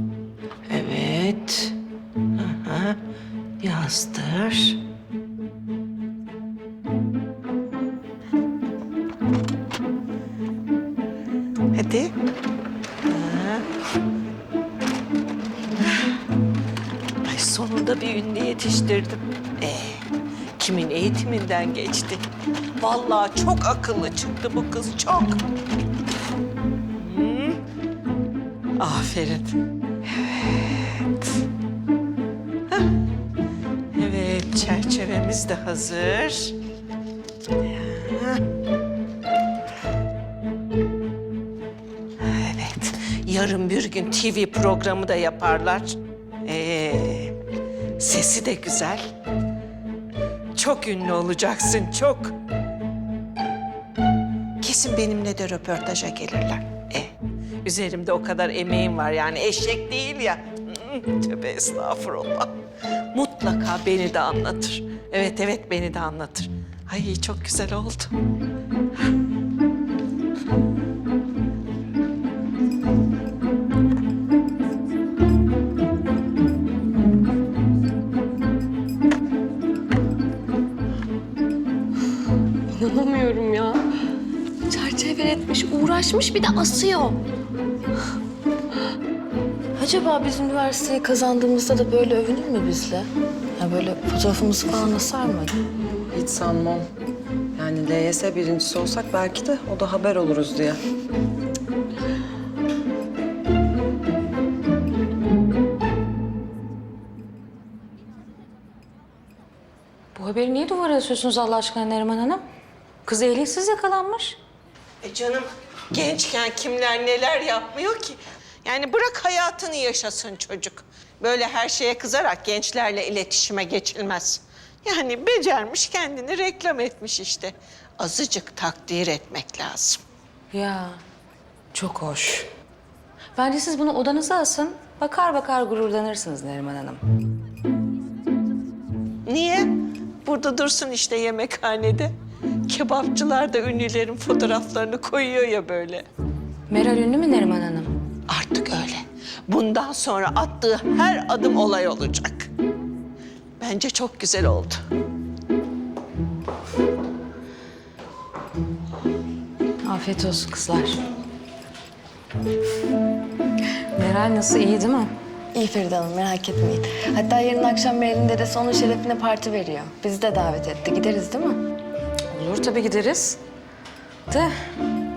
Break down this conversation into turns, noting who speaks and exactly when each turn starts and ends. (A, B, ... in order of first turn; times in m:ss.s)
0:00.7-0:01.8 A
0:02.4-0:03.0 A
0:03.6-0:04.8 A
0:11.7-0:12.1 A
0:13.0-0:13.6 A
0:17.2-0:20.1 A
0:20.6-0:22.2 A
0:22.8-0:25.4 A
0:27.0-0:27.6 A
0:28.8-0:29.6 A
0:30.1-0:31.1 A
0:33.9-0:36.5 A
0:37.6-0:38.4 A
0:42.2-0:47.4 A
0:48.0-0:49.1 A
0:50.6-0:52.3 A
0:54.6-0:57.1 A
0:57.6-1:02.5 A
1:03.1-1:08.1 A
1:22.7-1:23.8 B
1:24.7-1:27.2 B
1:29.8-1:35.6 B
1:36.1-1:36.8 C
1:37.6-1:40.8 C
1:50.1-1:52.4 D
1:53.0-1:54.4 D
1:55.0-2:10.0 A
2:10.5-2:11.0 D
2:11.7-2:12.5 D
2:13.4-2:17.0 D
2:19.2-2:19.7 A
2:20.2-2:22.1 A
2:22.7-2:26.0 A
2:26.7-2:27.9 D
2:28.3-2:32.5 A
2:33.6-2:34.8 A
2:39.8-2:41.0 D
2:43.9-2:45.1 D
2:45.5-2:51.6 B
2:52.3-2:53.4 D
2:54.3-2:54.5 D